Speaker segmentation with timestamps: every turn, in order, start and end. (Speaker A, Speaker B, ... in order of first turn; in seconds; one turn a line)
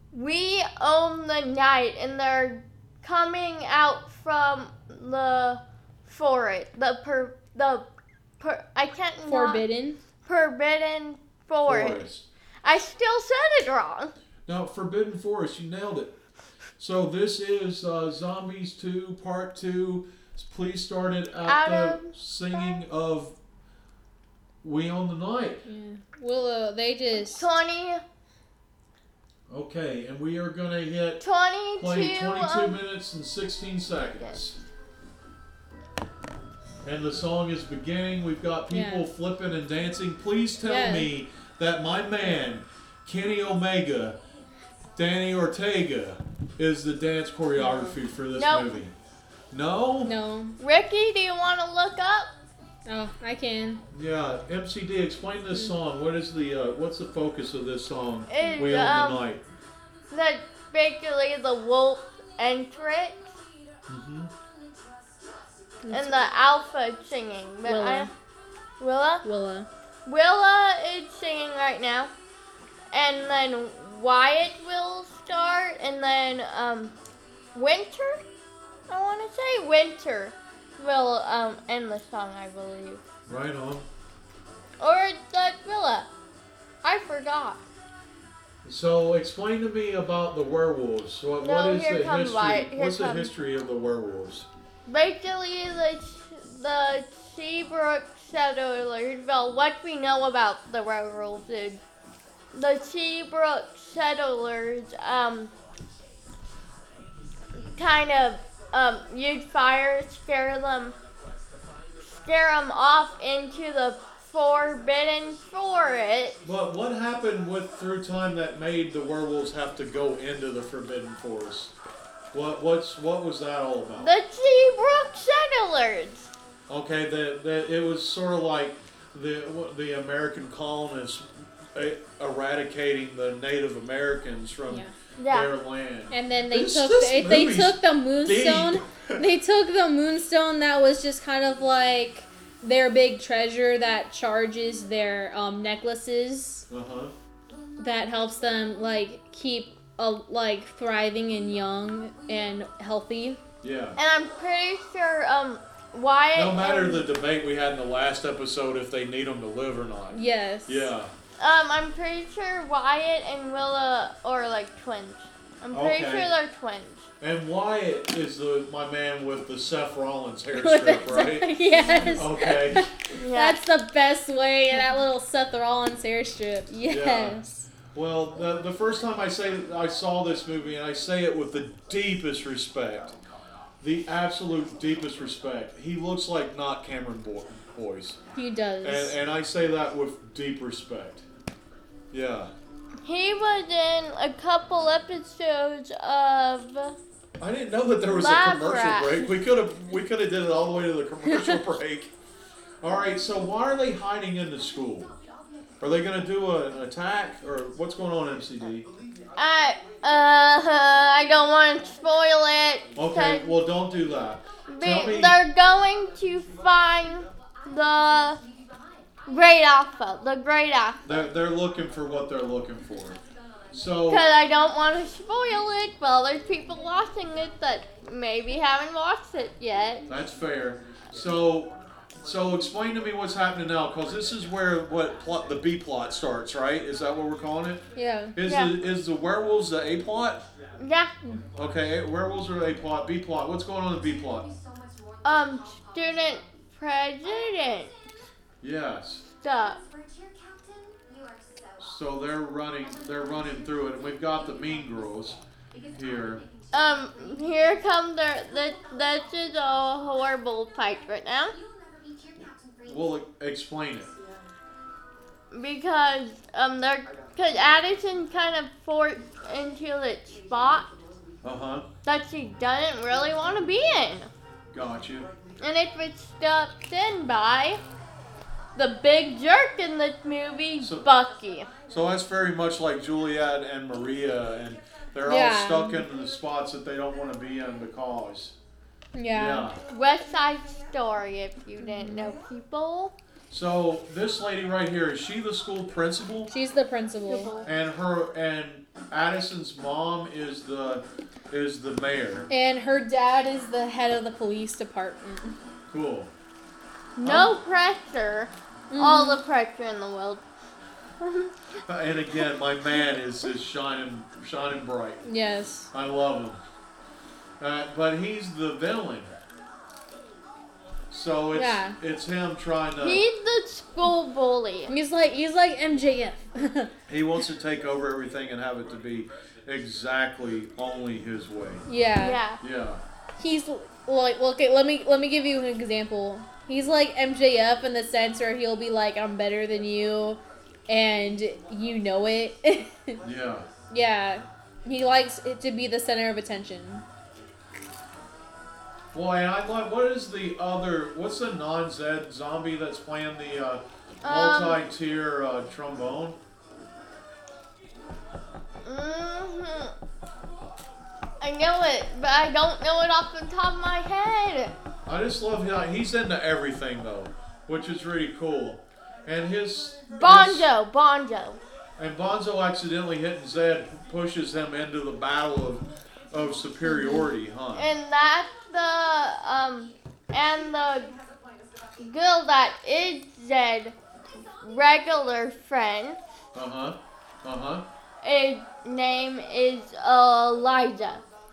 Speaker A: 0.1-7.9
Speaker A: 8.4-9.6
Speaker B: 9.3-10.0
Speaker A: 10.2-12.1
Speaker C: 11.7-12.3
Speaker A: 12.6-14.1
Speaker C: 14.5-16.1
Speaker C: 16.8-23.4
Speaker A: 21.4-22.1
Speaker C: 24.6-25.6
Speaker B: 25.7-27.5
Speaker A: 27.3-28.0
Speaker C: 29.5-31.2
Speaker A: 31.2-32.8
Speaker C: 31.8-34.6
Speaker C: 36.8-44.2
Speaker B: 38.7-39.1
Speaker B: 40.6-41.1
Speaker C: 45.0-48.9
Speaker B: 47.6-47.9
Speaker A: 48.3-48.7
Speaker C: 49.5-50.1
Speaker B: 50.0-50.6
Speaker A: 50.6-52.3
Speaker B: 52.9-53.8
Speaker C: 53.9-59.4
Speaker A: 58.3-59.2
Speaker A: 60.1-63.3
Speaker C: 63.9-64.3
Speaker B: 65.8-66.3
Speaker A: 65.9-68.1
Speaker B: 67.7-68.1
Speaker A: 68.8-69.2
Speaker B: 69.2-69.7
Speaker A: 70.1-72.1
Speaker A: 72.9-77.0
Speaker A: 77.5-78.2
Speaker A: 78.9-83.0
Speaker C: 83.3-83.9
Speaker A: 84.8-86.1
Speaker A: 86.8-87.6
Speaker C: 88.6-94.5
Speaker A: 91.4-93.3
Speaker A: 94.9-101.8
Speaker A: 102.5-105.5
Speaker A: 107.8-111.0
Speaker A: 112.0-116.4
Speaker C: 116.4-121.7
Speaker C: 122.3-124.1
Speaker A: 124.0-126.3
Speaker C: 126.7-139.3
Speaker A: 135.2-135.5
Speaker B: 136.1-146.7
Speaker C: 146.7-147.1
Speaker B: 147.8-153.4
Speaker C: 153.6-154.0
Speaker A: 154.0-157.1
Speaker C: 156.3-161.1
Speaker B: 160.1-160.9
Speaker A: 161.4-167.1
Speaker C: 165.7-166.3
Speaker C: 167.2-172.9
Speaker B: 170.6-177.7
Speaker A: 173.1-173.6
Speaker C: 176.9-177.4
Speaker C: 177.9-183.2
Speaker C: 183.8-188.2
Speaker B: 188.3-189.1
Speaker C: 188.8-191.2
Speaker C: 192.1-192.5
Speaker A: 193.1-197.0
Speaker C: 197.4-202.1
Speaker A: 198.1-199.3
Speaker C: 202.8-205.1
Speaker C: 205.8-208.9
Speaker A: 209.4-213.5
Speaker C: 212.9-215.4
Speaker A: 214.7-218.4
Speaker A: 219.3-221.0
Speaker C: 221.1-223.2
Speaker C: 223.7-224.3
Speaker A: 224.1-230.1
Speaker C: 230.1-237.8
Speaker B: 238.0-238.3
Speaker C: 238.4-240.4
Speaker A: 238.4-238.7
Speaker A: 240.8-241.1
Speaker C: 241.6-244.5
Speaker A: 245.2-247.9
Speaker C: 248.6-249.2
Speaker A: 249.4-249.8
Speaker C: 251.8-255.4
Speaker C: 255.9-256.4
Speaker A: 256.7-261.6
Speaker C: 262.9-264.1
Speaker A: 265.5-271.0
Speaker C: 271.4-271.9
Speaker A: 272.1-274.3
Speaker C: 274.7-275.3
Speaker A: 275.6-277.8
Speaker A: 278.8-281.7
Speaker C: 280.8-281.1
Speaker C: 281.9-288.6
Speaker B: 285.2-286.0
Speaker B: 289.1-289.7
Speaker C: 289.3-289.8
Speaker A: 289.9-293.1
Speaker B: 291.8-292.3
Speaker C: 293.5-296.5
Speaker B: 296.5-297.5
Speaker A: 297.3-297.7
Speaker C: 297.6-302.5
Speaker B: 302.5-305.6
Speaker C: 305.9-306.3
Speaker A: 307.2-310.4
Speaker C: 307.2-307.6
Speaker B: 308.9-309.4
Speaker A: 311.2-311.7
Speaker C: 311.9-315.2
Speaker B: 315.2-315.9
Speaker C: 315.9-316.6
Speaker C: 317.6-319.3
Speaker C: 321.1-323.2
Speaker B: 321.5-322.0
Speaker A: 323.0-324.9
Speaker B: 324.9-326.9
Speaker C: 327.1-331.9
Speaker B: 331.9-332.4
Speaker A: 332.2-332.6
Speaker C: 332.6-333.0
Speaker B: 333.4-343.2
Speaker C: 343.2-343.7
Speaker B: 343.9-347.1
Speaker C: 349.1-356.4
Speaker A: 354.2-354.8
Speaker A: 358.8-359.9
Speaker A: 361.4-364.8
Speaker C: 365.1-370.7
Speaker A: 370.2-371.6
Speaker C: 372.0-377.9
Speaker B: 376.9-377.3
Speaker A: 377.7-381.1
Speaker A: 382.0-384.0
Speaker A: 384.6-386.2
Speaker C: 386.6-387.9
Speaker A: 388.2-391.2